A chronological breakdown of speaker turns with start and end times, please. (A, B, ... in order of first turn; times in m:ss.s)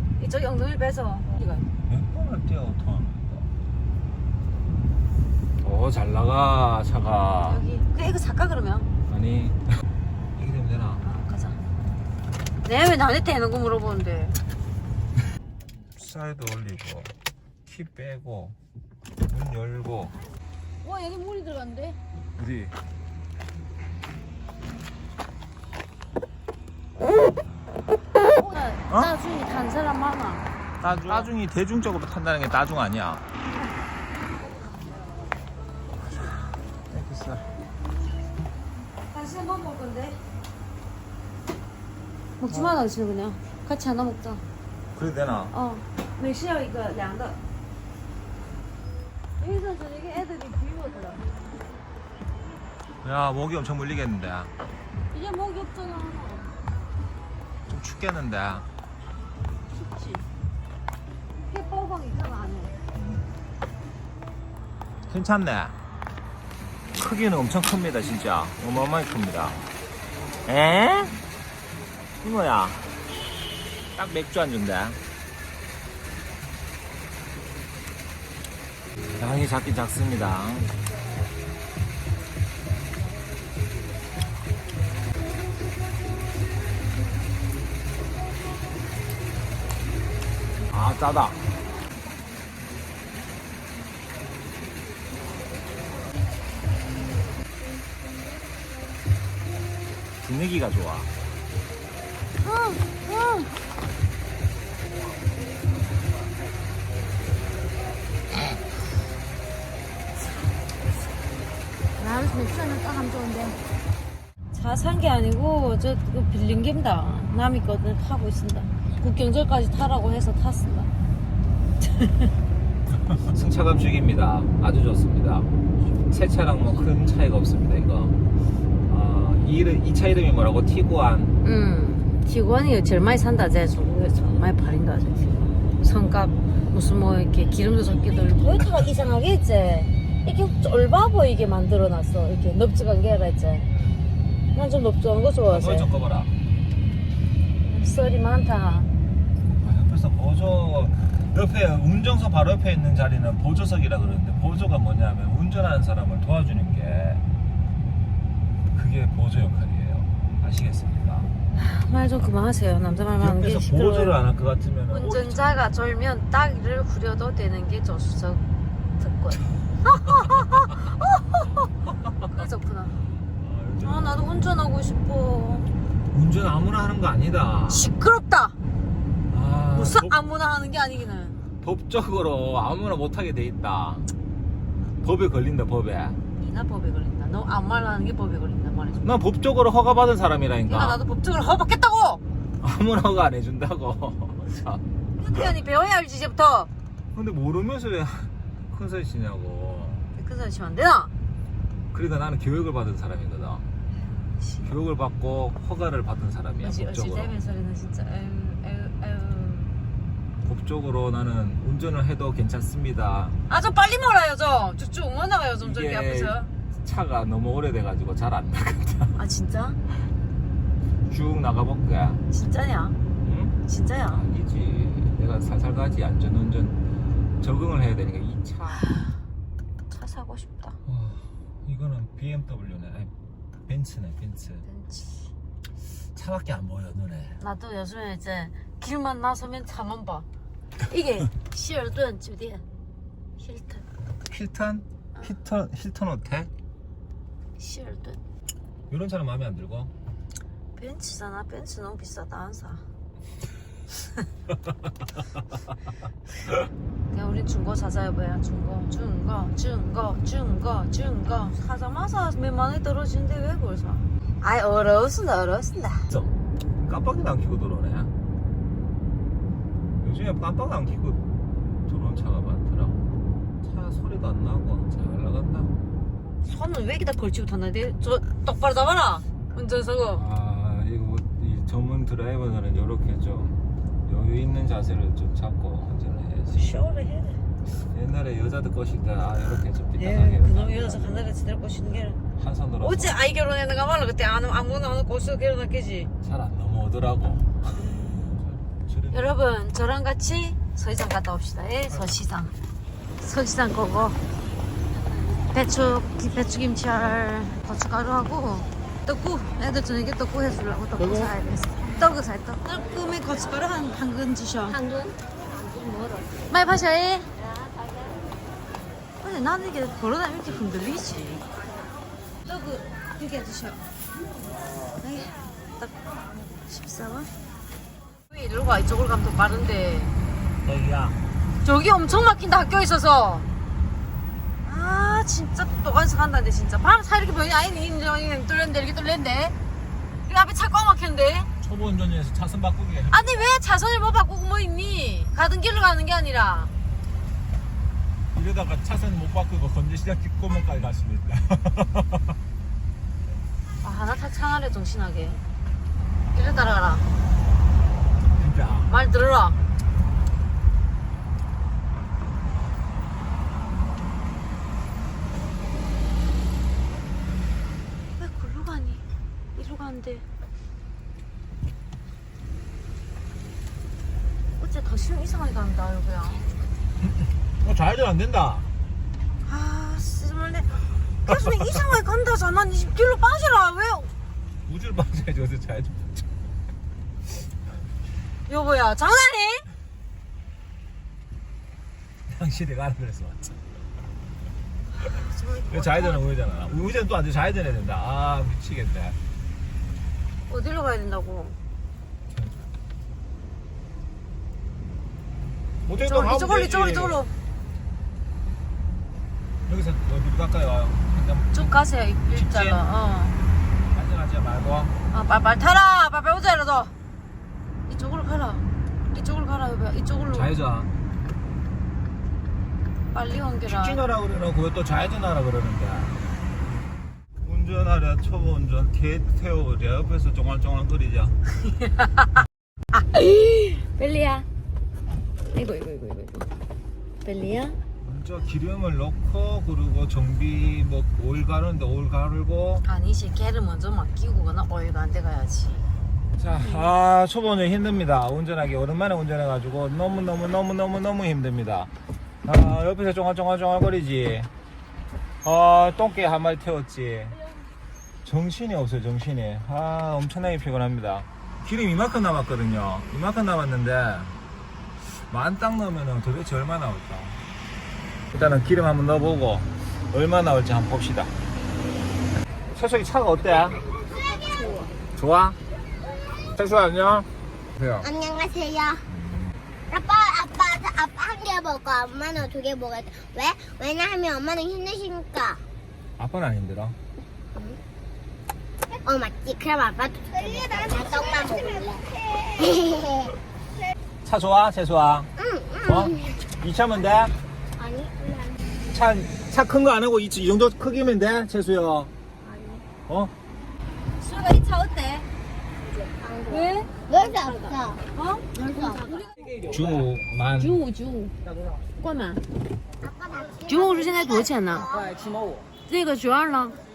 0:00.2-0:01.7 A
0:01.9-0:03.5 B
0:05.6-0:07.6 B
0:07.4-0:08.9 A
0:09.1-0:09.8 B
0:10.4-0:11.0 B
0:11.0-0:11.6 A
0:12.6-0:14.4 A
0:15.8-0:17.1 B
0:17.6-0:18.6 B
0:19.3-0:20.2 B
0:20.8-0:22.0 A
0:22.4-0:22.7 B
0:28.4-0:31.3 A
0:30.8-0:33.2 B
0:36.0-0:37.5 B
0:39.1-0:40.2 A
0:42.4-0:44.4 A
0:42.5-0:42.8 B
0:44.9-0:45.5 B
0:45.5-0:47.4 A
0:49.4-0:51.3 A
0:53.0-0:54.5 B
0:55.1-0:56.5 A
0:57.7-0:58.7 B
0:59.7-1:00.2 A
1:01.4-1:02.7 A
1:02.9-1:03.3 B
1:05.1-1:05.8 B
1:06.9-1:09.6 B
1:10.4-1:11.2 B
1:12.2-1:13.1 B
1:13.9-1:15.0 B
1:19.2-1:20.8 B
1:30.7-1:31.5 B
1:40.2-1:41.1 B
1:42.4-1:43.5 A
1:52.0-1:53.6 A
1:54.5-2:00.9 A
2:01.8-2:02.3 A
2:03.1-2:05.5 B
2:06.1-2:08.2 B
2:08.9-2:11.4 B
2:11.4-2:23.7 A
2:23.7-2:24.0 B
2:24.5-2:25.9 A
2:25.5-2:26.3 B
2:27.6-2:28.9 A
2:29.5-2:37.2 B
2:38.7-2:41.3 B
2:41.5-2:44.2 A
2:43.2-2:45.5 B
2:44.9-2:48.4 A
2:49.0-2:51.7 A
2:49.9-2:50.7 B
2:51.9-2:52.4 B
2:52.3-2:53.0 A
2:53.2-2:54.2 B
2:53.8-2:55.7 A
2:56.1-2:57.9 B
2:57.7-2:58.6 A
2:59.3-3:00.2 B
2:59.7-3:01.4 A
3:01.6-3:04.1 B
3:05.0-3:06.2 B
3:06.4-3:09.0 A
3:09.0-3:11.0 B
3:10.6-3:12.2 A
3:12.6-3:14.8 B
3:15.2-3:16.7 A
3:17.1-3:20.1 B
3:20.2-3:21.1 A
3:21.9-3:23.6 B
3:24.1-3:24.8 A
3:24.6-3:27.4 B
3:26.6-3:29.7 A
3:30.4-3:33.4 B
3:33.5-3:36.5 A
3:35.6-3:39.2 B
3:39.1-3:39.8 A
3:41.1-3:42.2 B
3:42.3-3:43.0 A
3:43.2-3:46.8 B
3:43.7-3:44.2 A
3:47.4-3:48.9 B
3:48.7-3:49.1 A
3:49.9-3:50.8 A
3:50.8-3:53.1 B
3:53.7-3:54.6 B
3:54.6-3:55.3 A
3:56.1-3:57.4 B
3:57.4-4:00.3 A
4:00.9-4:02.6 A
4:03.4-4:03.8 A
4:04.3-4:06.5 B
4:07.6-4:08.2 A
4:08.9-4:09.9 B
4:10.8-4:12.8 A
4:17.1-4:26.1 A
4:26.1-4:28.1 B
4:30.0-4:31.2 B
4:31.8-4:33.0 B
4:33.6-4:35.8 B
4:36.4-4:40.2 A
4:40.1-4:46.8 B
4:46.5-4:47.4 A
4:47.7-4:51.3 B
4:50.0-4:52.2 A
4:52.4-4:53.2 B
4:52.8-4:56.1 A
4:56.2-4:59.4 B
4:57.9-4:58.2 A
4:59.1-5:02.5 A
5:03.2-5:04.2 A
5:05.5-5:14.8 A
5:11.0-5:11.4 B
5:14.7-5:16.3 C
5:16.5-5:17.3 A
5:17.4-5:18.1 C
5:19.2-5:21.4 A
5:22.4-5:23.8 A
5:25.0-5:27.3 A
5:28.3-5:30.1 A
5:30.6-5:31.2 B
5:31.6-5:33.5 A
5:34.6-5:39.5 A
5:40.3-5:41.5 A
5:41.6-5:43.5 B
5:43.1-5:46.7 A
5:48.3-5:52.4 B
5:53.8-5:55.4 A
5:56.3-5:57.1 A
5:58.3-5:58.9 B
5:58.9-5:59.6 A
6:08.2-6:09.0 A
6:09.5-6:10.2 A
6:14.6-6:16.5 A
6:17.0-6:18.7 B
6:19.4-6:24.1 A
6:24.6-6:26.3 B
6:28.5-6:29.6 A
6:32.3-6:33.6 B
6:35.0-6:36.3 A
6:35.7-6:39.2 B
6:40.5-6:41.6 A
6:42.3-6:42.6 B
6:45.8-6:47.2 B
6:45.9-6:47.3 A
6:49.6-6:51.8 B
6:51.5-6:53.4 A
6:52.3-6:52.8 B
6:53.9-6:54.9 B
6:55.1-6:56.9 A
6:57.9-7:00.5 A
7:00.3-7:00.9 B
7:03.1-7:04.0 A
7:03.7-7:06.2 B
7:07.4-7:11.4 B
7:11.6-7:12.3 A
7:12.9-7:14.5 A
7:15.5-7:16.5 A
7:17.2-7:17.8 A
7:18.0-7:22.8 B
7:22.8-7:25.9 A
7:26.4-7:31.9 B
7:26.5-7:26.9 A
7:32.4-7:34.5 B
7:35.4-7:37.4 B
7:38.2-7:44.4 B
7:45.0-7:47.4 B
7:48.3-7:51.3 B
7:52.7-7:53.8 B
7:54.1-7:54.9 C
7:55.1-7:55.6 B
7:56.5-7:58.1 B
7:58.0-7:59.0 C
7:59.1-7:59.6 B
7:59.9-8:05.6 C
8:06.2-8:07.0 B
8:07.5-8:07.8 C
8:09.0-8:13.3 C
8:14.2-8:15.3 B
8:15.4-8:16.4 C
8:15.8-8:17.3 B
8:17.8-8:18.6 C
8:18.9-8:22.1 B
8:22.4-8:22.8 C
8:23.1-8:23.3 B
8:24.2-8:25.3 A
8:25.8-8:28.0 C
8:26.5-8:27.1 A
8:28.1-8:29.2 A
8:28.5-8:29.3 C
8:29.6-8:30.8 B
8:30.6-8:31.4 A
8:32.0-8:32.4 A
8:33.0-8:35.3 C
8:33.7-8:34.9 A
8:35.9-8:36.8 A